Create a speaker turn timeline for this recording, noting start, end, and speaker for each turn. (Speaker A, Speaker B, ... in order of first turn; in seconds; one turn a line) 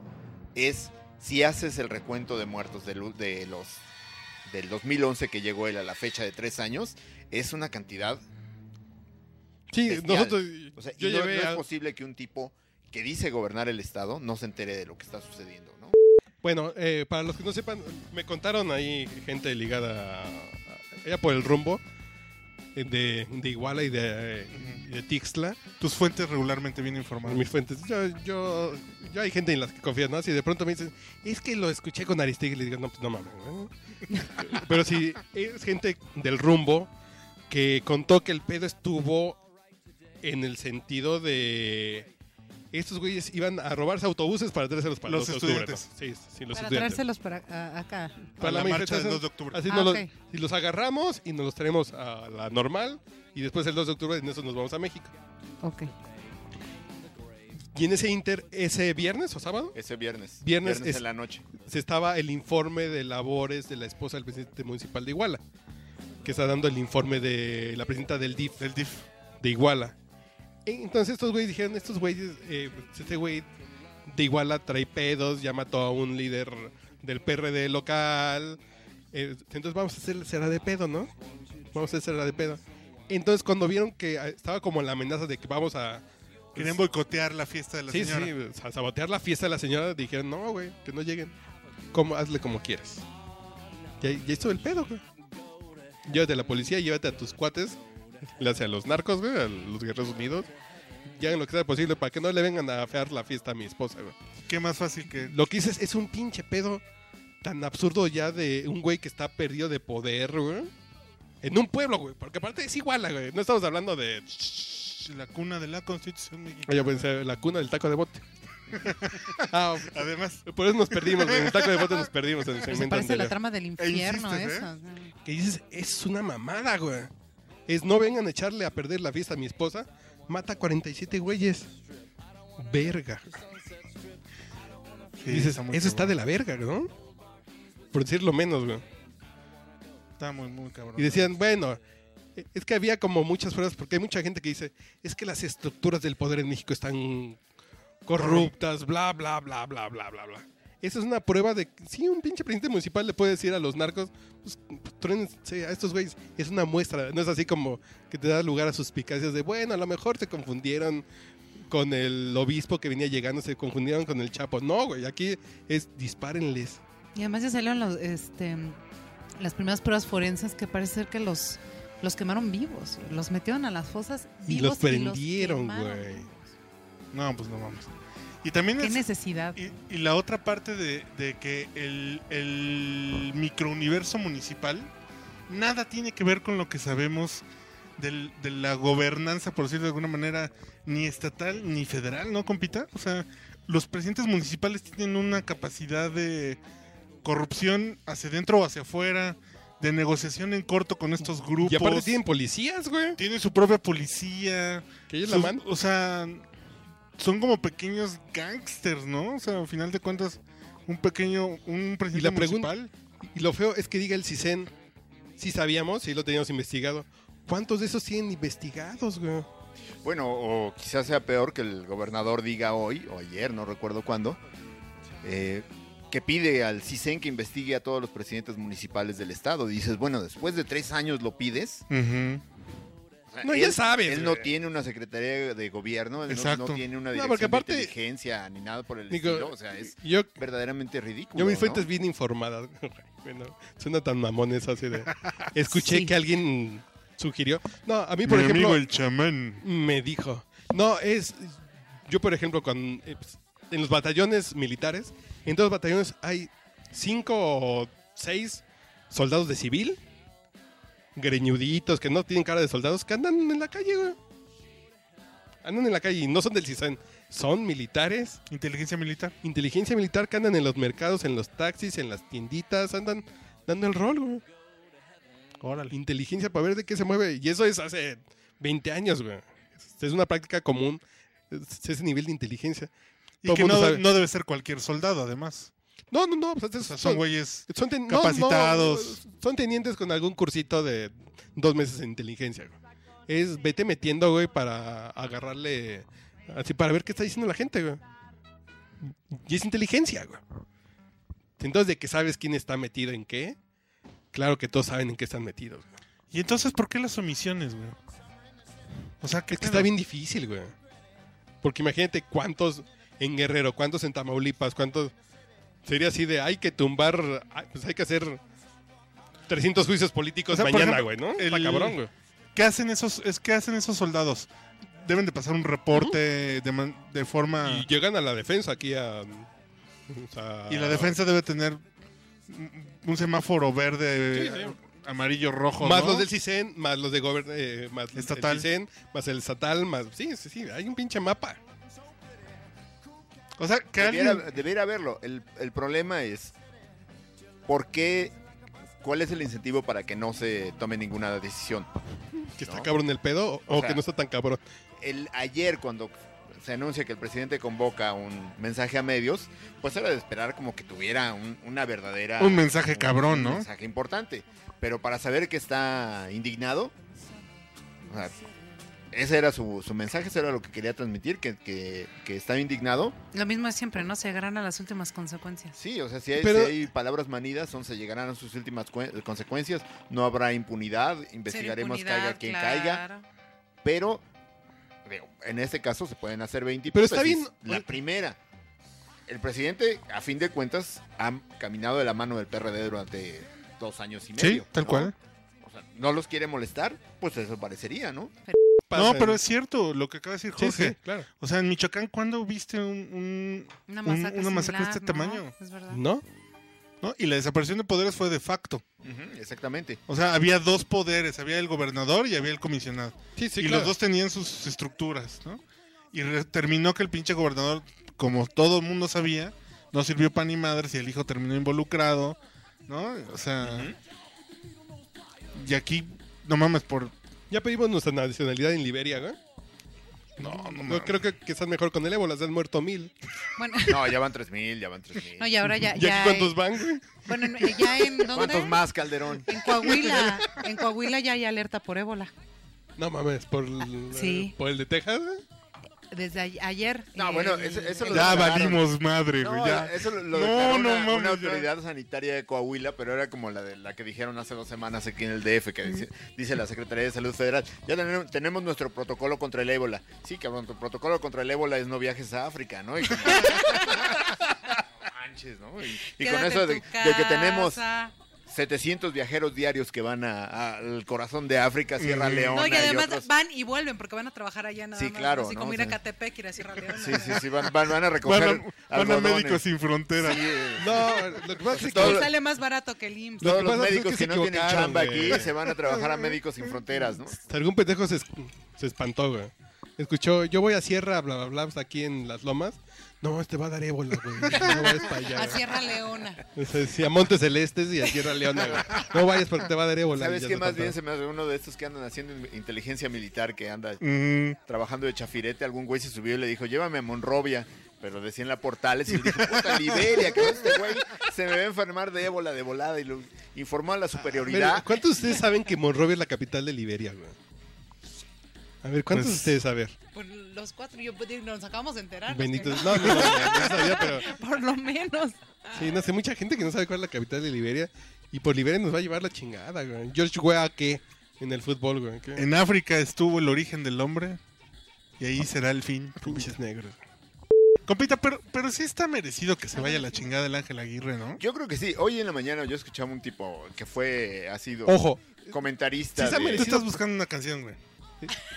Speaker A: 0.5-3.8
Speaker A: 4.4-8.2
Speaker B: 9.7-11.6
Speaker A: 9.8-15.9
Speaker B: 16.4-21.8
Speaker B: 22.8-25.6
Speaker C: 24.6-24.8
Speaker C: 25.8-27.5
Speaker B: 27.2-33.7
Speaker B: 34.3-36.9
Speaker B: 37.5-39.4
Speaker B: 40.2-42.1
Speaker B: 42.7-47.0
Speaker C: 45.1-45.9
Speaker D: 46.5-48.3
Speaker B: 48.4-55.1
Speaker C: 48.4-49.7
Speaker D: 49.7-50.1
Speaker D: 55.6-55.9
Speaker B: 57.7-59.8
Speaker A: 59.7-61.5
Speaker B: 60.4-65.4
Speaker B: 66.2-68.6
Speaker C: 68.6-69.1
Speaker B: 69.4-70.0
Speaker B: 70.7-73.5
Speaker B: 74.1-78.6
Speaker B: 79.1-81.1
Speaker B: 81.7-86.8
Speaker C: 86.5-88.3
Speaker B: 87.9-91.3
Speaker B: 91.9-93.0
Speaker B: 94.0-95.0
Speaker B: 96.0-100.5
Speaker B: 101.1-104.2
Speaker C: 104.5-105.3
Speaker B: 105.2-106.8
Speaker B: 107.4-110.7
Speaker B: 111.4-114.8
Speaker C: 114.8-117.1
Speaker B: 116.7-118.3
Speaker C: 118.7-122.1
Speaker B: 119.5-123.3
Speaker D: 122.6-125.1
Speaker C: 123.8-124.7
Speaker B: 125.2-127.1
Speaker B: 127.7-131.7
Speaker B: 132.6-133.4
Speaker C: 135.2-136.1
Speaker B: 135.3-136.9
Speaker B: 137.9-138.8
Speaker C: 140.2-141.3
Speaker B: 141.0-141.8
Speaker B: 142.3-147.4
Speaker B: 148.1-161.0
Speaker C: 148.2-148.5
Speaker B: 161.7-166.8
Speaker D: 167.1-168.8
Speaker D: 169.4-176.4
Speaker B: 174.5-176.3
Speaker C: 177.1-177.9
Speaker C: 178.4-179.0
Speaker D: 178.8-179.6
Speaker C: 179.6-184.9
Speaker C: 185.5-187.4
Speaker C: 188.0-196.6
Speaker C: 197.2-202.2
Speaker B: 201.6-203.2
Speaker C: 203.2-206.5
Speaker B: 205.1-205.6
Speaker C: 207.2-212.9
Speaker B: 212.1-212.7
Speaker B: 213.2-214.7
Speaker B: 215.4-219.5
Speaker A: 220.0-224.4
Speaker A: 225.2-231.9
Speaker C: 231.9-232.4
Speaker A: 233.3-241.9
Speaker B: 233.4-234.5
Speaker C: 236.3-236.8
Speaker B: 237.1-237.9
Speaker B: 239.1-240.3
Speaker B: 241.3-248.8
Speaker D: 245.7-246.1
Speaker C: 248.2-249.6
Speaker B: 249.6-260.0
Speaker B: 261.1-264.2
Speaker B: 265.6-268.4
Speaker C: 268.5-269.3
Speaker B: 269.4-274.4
Speaker C: 275.6-275.9
Speaker B: 275.9-282.9
Speaker C: 283.4-285.7
Speaker B: 283.4-284.0
Speaker B: 286.1-292.8
Speaker C: 286.8-289.2
Speaker B: 293.3-298.0
Speaker B: 299.1-300.4
Speaker B: 301.6-303.6
Speaker B: 304.3-305.9
Speaker C: 306.3-308.0
Speaker C: 309.2-309.9
Speaker B: 309.5-310.7
Speaker B: 311.6-315.1
Speaker B: 315.8-318.4
Speaker B: 319.5-322.1
Speaker C: 320.5-322.0
Speaker C: 322.5-324.5
Speaker C: 325.0-327.9
Speaker B: 325.9-326.2
Speaker B: 327.6-329.5
Speaker B: 330.1-331.2
Speaker C: 330.7-331.8
Speaker C: 332.5-336.3
Speaker B: 334.3-334.7
Speaker B: 335.8-341.6
Speaker C: 338.1-338.7
Speaker C: 343.6-344.5
Speaker A: 344.0-346.5
Speaker A: 347.7-348.4
Speaker A: 349.0-351.9
Speaker B: 352.4-354.6
Speaker A: 352.6-352.9
Speaker A: 353.7-354.0
Speaker A: 355.0-366.9
Speaker C: 362.4-363.6
Speaker A: 368.1-368.4
Speaker A: 369.1-373.2
Speaker D: 373.3-375.7
Speaker A: 375.7-383.0
Speaker B: 376.4-376.8
Speaker D: 381.5-383.2
Speaker A: 383.8-384.2
Speaker A: 385.0-388.4
Speaker B: 386.9-387.9
Speaker A: 389.3-398.3
Speaker C: 394.4-395.1
Speaker B: 398.9-399.4
Speaker C: 398.9-405.5
Speaker B: 400.5-401.3
Speaker D: 403.9-406.0
Speaker B: 405.9-406.2
Speaker C: 407.0-408.8
Speaker A: 409.0-410.0
Speaker C: 410.1-415.6
Speaker B: 413.4-413.9
Speaker C: 416.1-423.9
Speaker A: 423.6-424.0
Speaker C: 425.5-427.1
Speaker B: 427.5-429.4
Speaker C: 430.4-431.2
Speaker B: 430.4-433.1
Speaker D: 433.6-434.1
Speaker A: 433.9-435.6
Speaker D: 435.4-438.9
Speaker B: 435.8-438.1
Speaker A: 438.3-440.5
Speaker D: 439.4-442.3
Speaker B: 443.0-445.4
Speaker D: 444.1-444.5
Speaker D: 446.1-448.6
Speaker A: 447.1-467.8
Speaker C: 448.1-451.7
Speaker D: 463.3-464.1
Speaker D: 466.2-468.1
Speaker A: 468.4-473.3
Speaker C: 472.0-472.6
Speaker D: 472.5-477.6
Speaker A: 474.9-476.0
Speaker A: 476.9-479.6
Speaker C: 478.2-480.4
Speaker A: 480.2-482.3
Speaker B: 480.7-482.3
Speaker D: 481.8-483.6
Speaker B: 483.4-485.5
Speaker A: 483.4-487.4
Speaker C: 485.7-486.2
Speaker B: 487.4-495.6
Speaker D: 494.7-496.4
Speaker B: 496.5-501.0
Speaker A: 498.6-499.1
Speaker A: 500.1-504.0
Speaker C: 504.0-504.6
Speaker A: 504.6-515.0
Speaker C: 509.2-510.7
Speaker B: 514.3-517.4
Speaker B: 518.8-520.0
Speaker C: 519.1-519.5
Speaker D: 520.1-525.8
Speaker B: 522.3-524.3
Speaker C: 523.1-523.5
Speaker B: 525.7-532.5
Speaker C: 532.4-534.4
Speaker C: 535.2-536.5
Speaker B: 536.2-537.0
Speaker C: 537.9-541.4
Speaker D: 539.7-540.3
Speaker A: 541.4-546.7
Speaker B: 544.9-545.5
Speaker B: 546.1-546.9
Speaker C: 546.5-547.8